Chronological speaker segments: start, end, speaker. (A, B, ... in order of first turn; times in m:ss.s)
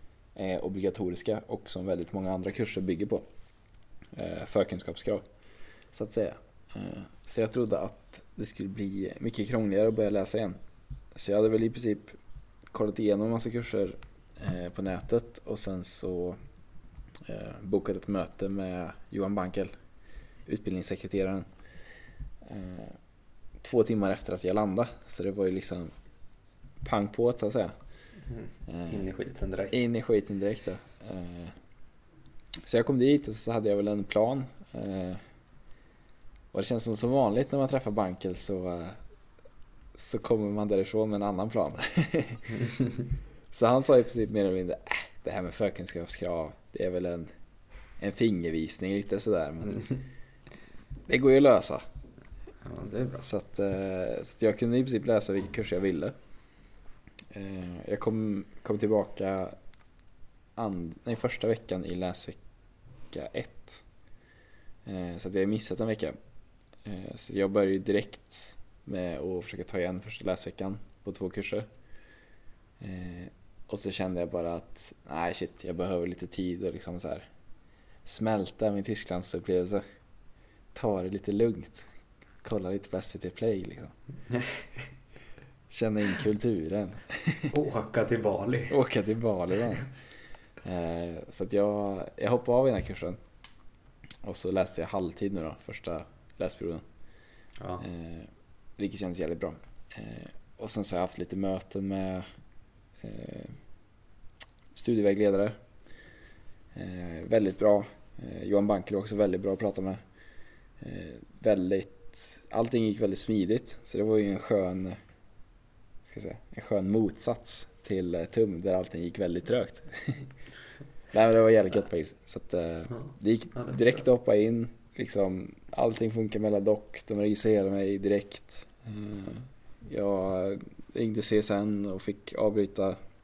0:00.4-0:03.2 A
0:04.1-0:05.2 A
0:05.9-0:10.6 A
0:11.1-0:12.2 A
0:12.7-0:16.4 A
0:17.2-0:19.7 A
0:20.5-0:21.5 A
0:22.4-0:23.0 A
0:23.6-0:25.9 A
0:26.8-0:27.7 A
0:28.3-0:29.8 B
0:28.7-0:29.0 A
0:29.7-0:31.6 A
0:32.6-0:35.2 A
0:36.5-0:39.0 A
0:40.0-0:42.6 A
0:43.5-0:47.3 A
0:48.0-0:50.0 A
0:51.1-0:51.8 A
0:52.6-0:53.2 B
0:53.2-0:56.2 A
0:57.3-0:59.6 A
1:00.6-1:02.4 A
1:03.1-1:03.8 A
1:04.9-1:06.2 A
1:06.8-1:11.7 A
1:12.8-1:17.3 A
1:18.0-1:19.8 A
1:20.7-1:21.9 A
1:22.4-1:23.9 A
1:24.3-1:24.7 B
1:25.7-1:27.5 A
1:27.5-1:28.7 B
1:28.7-1:29.9 A
1:30.6-1:33.2 A
1:34.2-1:36.8 A
1:37.8-1:42.3 A
1:43.0-1:43.6 A
1:44.7-1:45.6 A
1:46.8-1:50.0 A
1:50.8-1:55.0 A
1:56.0-2:00.3 A
2:01.1-2:13.0 A
2:03.6-2:04.0 B